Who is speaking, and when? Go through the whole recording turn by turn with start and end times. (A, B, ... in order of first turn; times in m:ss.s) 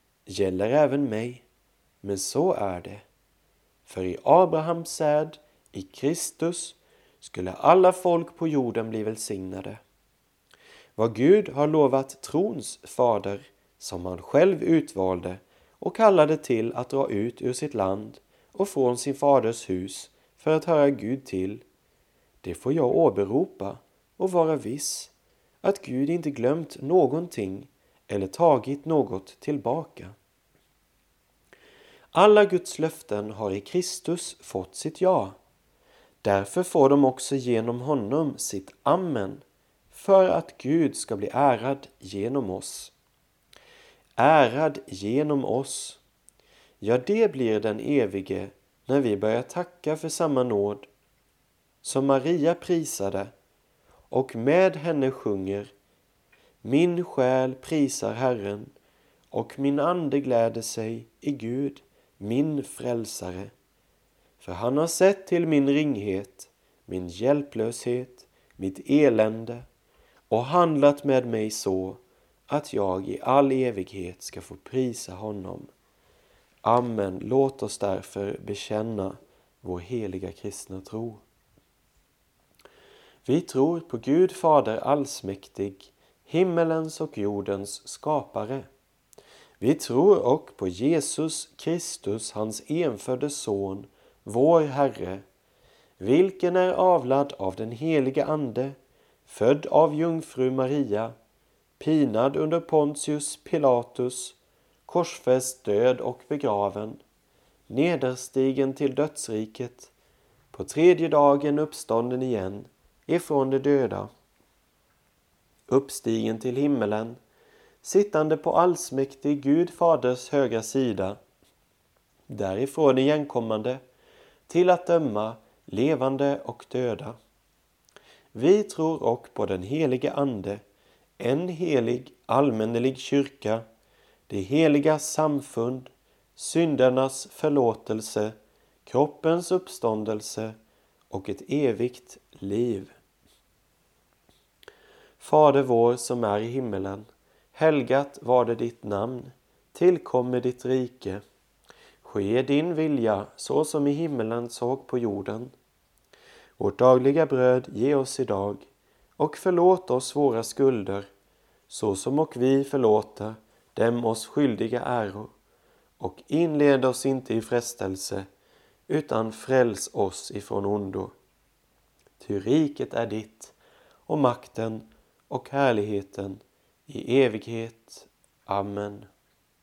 0:00.3-0:01.5 A
0:02.0-0:03.0 A
0:03.8-0:09.8 A
0:11.0-0:21.6 A
0:22.4-0:30.2 A
0:32.1-0:35.4 A
0:36.2-0:42.9 A
0:44.2-0:46.0 A
0:46.8-0:50.9 A
0:51.8-0:53.3 A
0:54.1-0:55.7 A
0:56.6-0:58.7 A
0:59.3-1:03.5 A
1:04.4-1:09.7 A
1:10.3-1:15.7 A
1:16.6-1:21.2 A
1:23.2-1:28.7 A
1:29.6-1:35.2 A
1:36.0-1:38.8 A
1:39.3-1:41.2 A
1:41.8-1:47.0 A
1:47.7-1:49.9 A
1:50.5-1:54.1 A
1:55.7-1:57.2 A
1:57.8-2:01.2 A
2:02.3-2:03.8 A
2:04.5-2:07.2 A
2:08.3-2:10.6 A
2:11.2-2:13.6 A
2:14.3-2:20.6 A
2:21.1-2:22.9 A
2:25.2-2:31.2 A
2:32.0-2:35.5 A
2:36.6-2:38.7 A
2:39.2-2:41.1 A
2:41.7-2:45.3 A
2:46.0-2:48.3 A
2:48.9-2:51.1 A
2:52.2-2:53.6 A
2:54.1-2:59.1 A